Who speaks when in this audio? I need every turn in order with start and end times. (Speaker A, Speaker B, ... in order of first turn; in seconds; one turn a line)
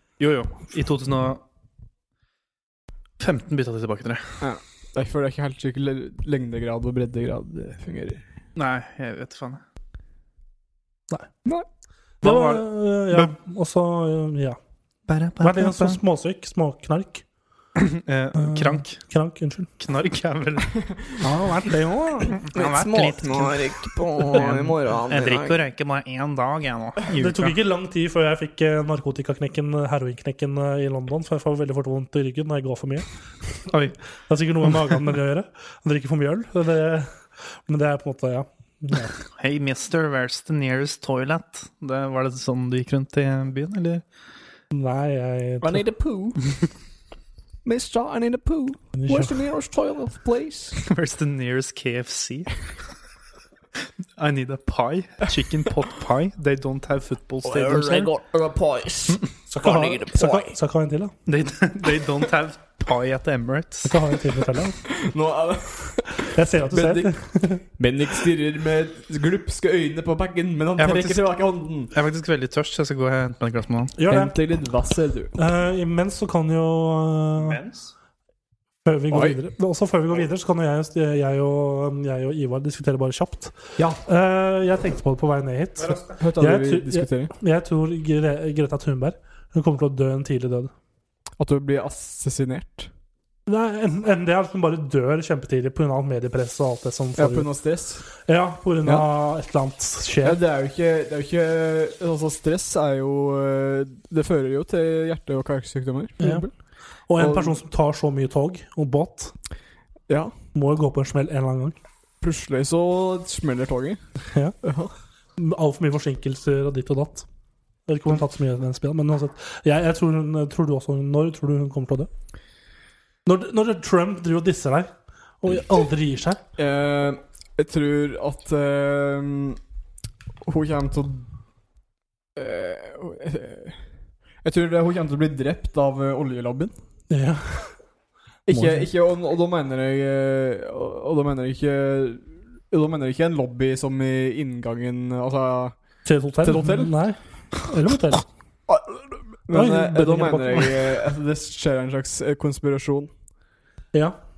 Speaker A: 0.2-1.4
Speaker A: 3.2-4.3
Speaker B: 4.4-8.2
Speaker A: 8.6-9.6
Speaker A: 12.2-13.3
Speaker C: 12.2-14.6
Speaker A: 15.1-16.0
Speaker C: 15.4-17.2
Speaker A: 17.8-19.0
Speaker C: 18.4-19.7
Speaker A: 19.8-20.9
Speaker C: 21.2-22.4
Speaker A: 22.3-27.5
Speaker B: 22.5-25.6
Speaker C: 27.1-33.1
Speaker A: 33.7-33.9
Speaker C: 34.3-37.1
Speaker C: 37.7-39.1
Speaker A: 39.3-44.0
Speaker C: 44.7-45.8
Speaker B: 45.6-46.5
Speaker B: 47.6-50.8
Speaker C: 49.0-49.3
Speaker A: 50.8-52.6
Speaker A: 54.2-58.1
Speaker B: 57.4-60.5
Speaker C: 59.5-61.1
Speaker A: 61.2-63.9
Speaker C: 63.8-64.8
Speaker B: 64.8-71.9
Speaker C: 66.3-67.6
Speaker A: 70.8-71.3
Speaker A: 71.9-73.9
Speaker C: 74.0-74.3
Speaker B: 74.1-75.3
Speaker C: 75.4-77.6
Speaker A: 77.4-77.9
Speaker C: 78.8-90.7
Speaker B: 79.1-79.4
Speaker B: 86.1-87.3
Speaker B: 91.4-92.9
Speaker C: 93.5-97.5
Speaker B: 97.2-98.0
Speaker C: 98.2-100.4
Speaker B: 100.2-106.5
Speaker C: 106.2-106.4
Speaker C: 107.1-109.3
Speaker B: 107.2-107.5
Speaker B: 110.1-110.3
Speaker C: 110.5-111.8
Speaker B: 112.2-114.0
Speaker B: 114.6-114.9
Speaker C: 115.4-117.2
Speaker C: 117.9-122.1
Speaker C: 123.2-124.9
Speaker C: 125.4-126.4
Speaker B: 126.6-129.6
Speaker B: 130.4-131.3
Speaker B: 132.3-133.8
Speaker B: 134.4-136.7
Speaker C: 137.1-137.7
Speaker B: 138.5-145.8
Speaker C: 138.5-138.9
Speaker C: 146.1-148.2
Speaker B: 146.4-146.9
Speaker B: 148.7-153.1
Speaker C: 149.5-150.7